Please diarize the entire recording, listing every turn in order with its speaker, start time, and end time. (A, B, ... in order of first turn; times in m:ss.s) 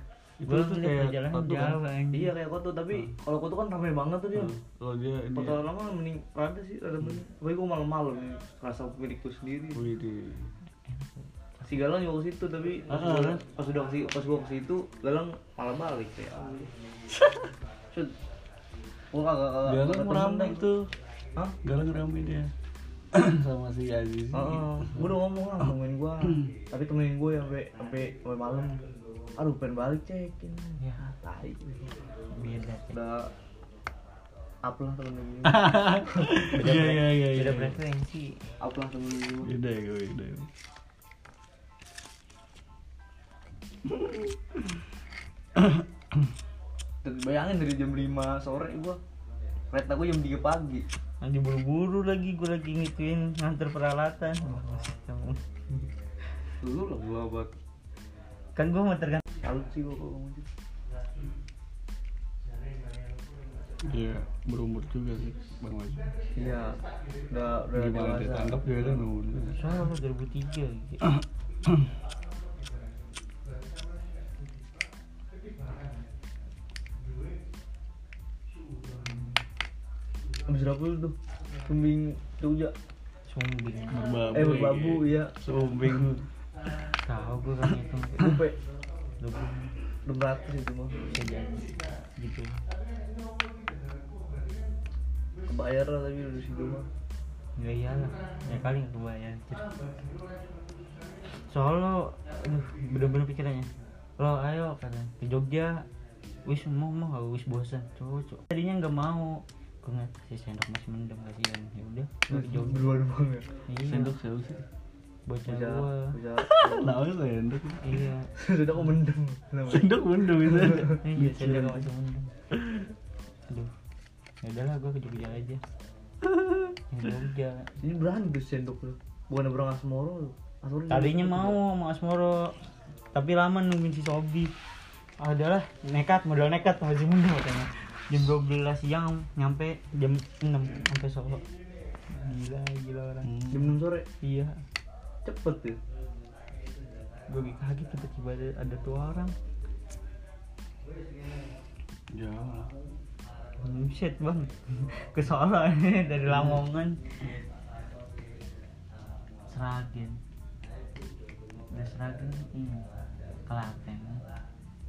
0:00.4-0:01.8 A
0:00.4-0:02.3 B
0:02.1-0:04.6 C
0:04.3-0:05.6 A
0:05.3-0:09.8 C
0:09.7-0:10.5 A
0:10.8-0:11.8 B
0:11.7-0:16.7 C
0:12.9-0:13.4 A
0:13.0-0:13.2 B
0:17.1-0:17.5 A
0:19.1-0:20.6 C
0:19.6-0:20.9 A
0:21.6-0:22.5 A
0:23.1-0:24.9 A
0:24.3-0:28.8 C
0:29.4-0:31.9 C
0:30.8-0:31.1 B
0:32.3-0:33.0 B
0:32.9-0:33.3 C
0:34.6-0:37.1 C
0:35.4-0:37.8 A
0:37.3-0:38.4 B
0:38.6-0:39.5 C
0:39.4-0:40.5 A
0:45.6-0:46.2 A
0:47.0-0:49.0 C
0:49.7-0:50.9 C
0:51.2-0:55.4 B
0:56.6-0:57.5 C
0:58.5-0:59.2 B
0:59.4-1:00.4 C
1:03.8-1:06.2 A
1:06.3-1:09.0 C
1:07.7-1:09.6 A
1:09.5-1:11.1 B
1:20.5-1:21.2 C
1:21.7-1:22.7 C
1:23.3-1:24.0 B
1:23.9-1:26.3 A
1:24.3-1:25.3 C
1:27.0-1:28.4 B
1:28.2-1:28.6 C
1:29.2-1:29.7 B
1:30.0-1:31.0 C
1:31.1-1:32.6 B
1:35.5-1:36.8 C
1:37.6-1:39.7 B
1:41.4-1:45.8 B
1:46.4-1:53.0 B
1:52.3-1:53.5 C
1:53.7-1:54.1 B
1:53.8-1:54.6 A
1:55.2-1:56.2 B
1:55.5-1:56.9 C
1:56.4-1:58.1 A
1:57.8-1:58.3 B
1:58.4-2:01.0 C
1:59.7-2:01.9 A
2:01.0-2:02.3 B
2:03.5-2:03.7 B
2:04.4-2:05.6 B
2:06.3-2:06.7 A
2:06.9-2:07.7 B
2:07.8-2:11.6 C
2:10.9-2:12.6 B
2:13.1-2:14.5 B
2:15.2-2:21.4 B
2:22.1-2:23.3 B
2:23.2-2:23.8 A
2:23.5-2:24.0 C
2:24.2-2:24.6 B
2:25.2-2:25.8 C
2:27.3-2:29.3 B
2:32.1-2:32.7 A
2:33.6-2:37.3 B
2:36.3-2:36.6 A
2:39.5-2:40.2 B
2:41.7-2:42.8 B
2:43.5-2:44.2 B